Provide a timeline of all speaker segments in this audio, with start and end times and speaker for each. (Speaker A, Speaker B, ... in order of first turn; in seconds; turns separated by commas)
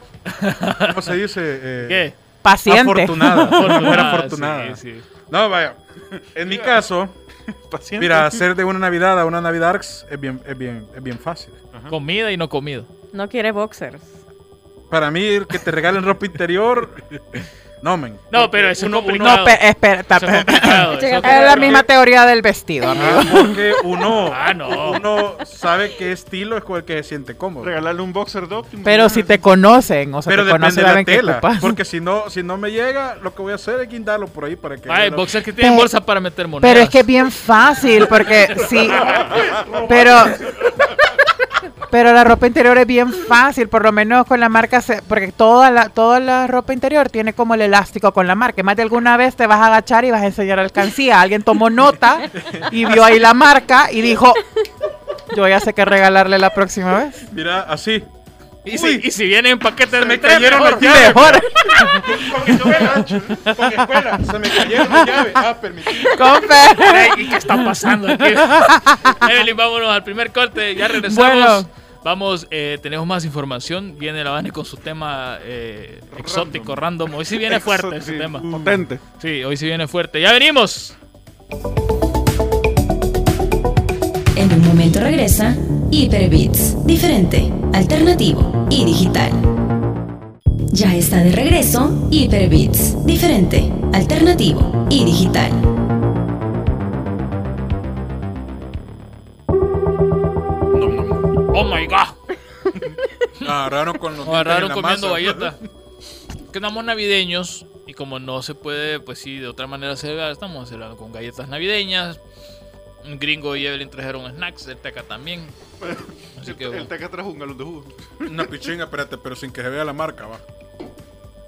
Speaker A: 0.3-1.1, Speaker B: 0.8-2.1, Speaker A: 1.9-2.1, Speaker C: 2.4-4.1, Speaker B: 2.7-7.2, Speaker A: 3.5-5.0, Speaker D: 6.4-6.8, Speaker D: 7.7-8.4, Speaker B: 8.0-11.6, Speaker A: 11.9-12.9, Speaker E: 13.1-14.2, Speaker B: 14.9-17.1, Speaker B: 17.8-19.5, Speaker A: 18.3-21.8, Speaker C: 19.2-23.6, Speaker E: 20.9-21.8, Speaker B: 22.9-27.7, Speaker A: 24.2-25.0, Speaker D: 27.6-29.5, Speaker C: 28.8-31.8, Speaker B: 30.3-35.3, Speaker A: 34.9-37.0, Speaker C: 35.6-35.9, Speaker C: 36.6-39.2, Speaker B: 38.5-40.8, Speaker C: 39.9-40.4, Speaker C: 41.9-54.5, Speaker B: 52.4-53.2, Speaker C: 55.3-57.3, Speaker B: 57.3-58.1, Speaker A: 58.6-61.2, Speaker B: 58.7-59.1, Speaker B: 59.9-66.6, Speaker C: 60.8-62.1, Speaker D: 62.1-63.4, Speaker C: 63.4-63.9, Speaker C: 64.7-65.2, Speaker C: 66.0-69.3, Speaker A: 66.8-78.5, Speaker C: 70.9-71.7, Speaker D: 76.1-76.8, Speaker D: 77.4-79.0, Speaker A: 79.2-81.0, Speaker F: 84.4-89.4, Speaker F: 90.7-95.6, Speaker B: 100.7-101.3, Speaker A: 101.5-102.2, Speaker B: 103.4-105.6, Speaker A: 104.2-105.6, Speaker A: 106.5-112.2, Speaker A: 113.0-115.5, Speaker D: 115.8-118.3, Speaker A: 116.4-116.9, Speaker B: 118.2-120.4